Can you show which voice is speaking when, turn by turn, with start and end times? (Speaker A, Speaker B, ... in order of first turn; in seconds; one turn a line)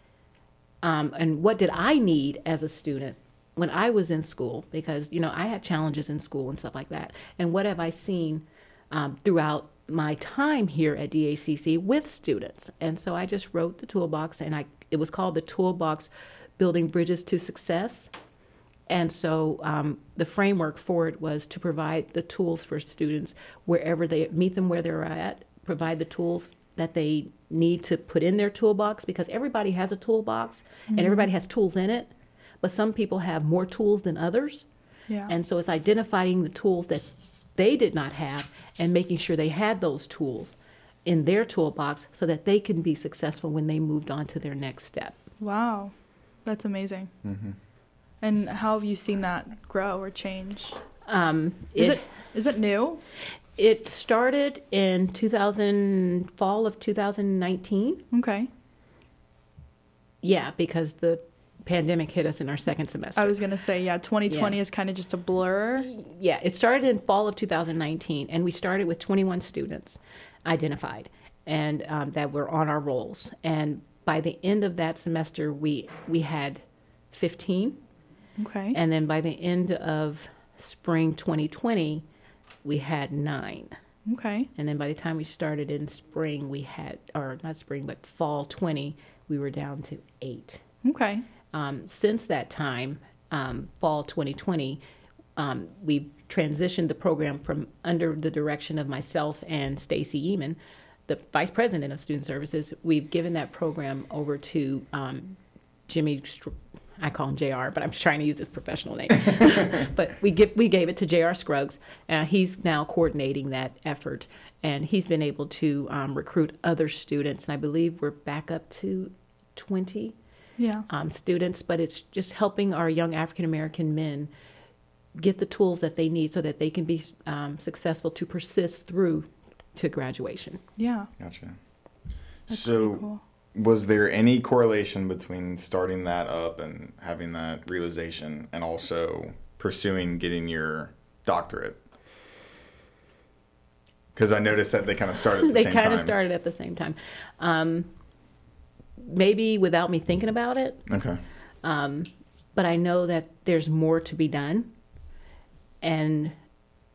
Speaker A: 0.8-18.1
Speaker A: 18.9-34.7
Speaker B: 30.9-31.3
Speaker A: 35.3-45.2
Speaker B: 45.4-45.9
Speaker B: 46.5-47.1
Speaker C: 47.2-47.6
Speaker B: 48.2-50.8
Speaker A: 51.1-52.0
Speaker B: 51.8-53.0
Speaker A: 53.6-58.0
Speaker B: 58.1-58.5
Speaker A: 60.2-63.4
Speaker B: 63.2-65.9
Speaker A: 64.3-64.6
Speaker A: 65.8-77.8
Speaker B: 78.4-78.8
Speaker A: 78.7-82.0
Speaker A: 82.6-83.8
Speaker B: 84.1-84.5
Speaker A: 84.6-90.6
Speaker B: 90.8-91.2
Speaker A: 91.5-94.8
Speaker A: 95.4-120.2
Speaker B: 120.6-120.9
Speaker A: 120.9-124.3
Speaker A: 125.2-130.6
Speaker B: 130.8-131.1
Speaker C: 131.2-131.6
Speaker C: 132.5-141.8
Speaker B: 132.5-133.2
Speaker C: 144.2-146.2
Speaker A: 145.4-147.9
Speaker A: 149.0-150.8
Speaker C: 150.9-151.2
Speaker A: 151.6-154.7
Speaker A: 155.8-156.4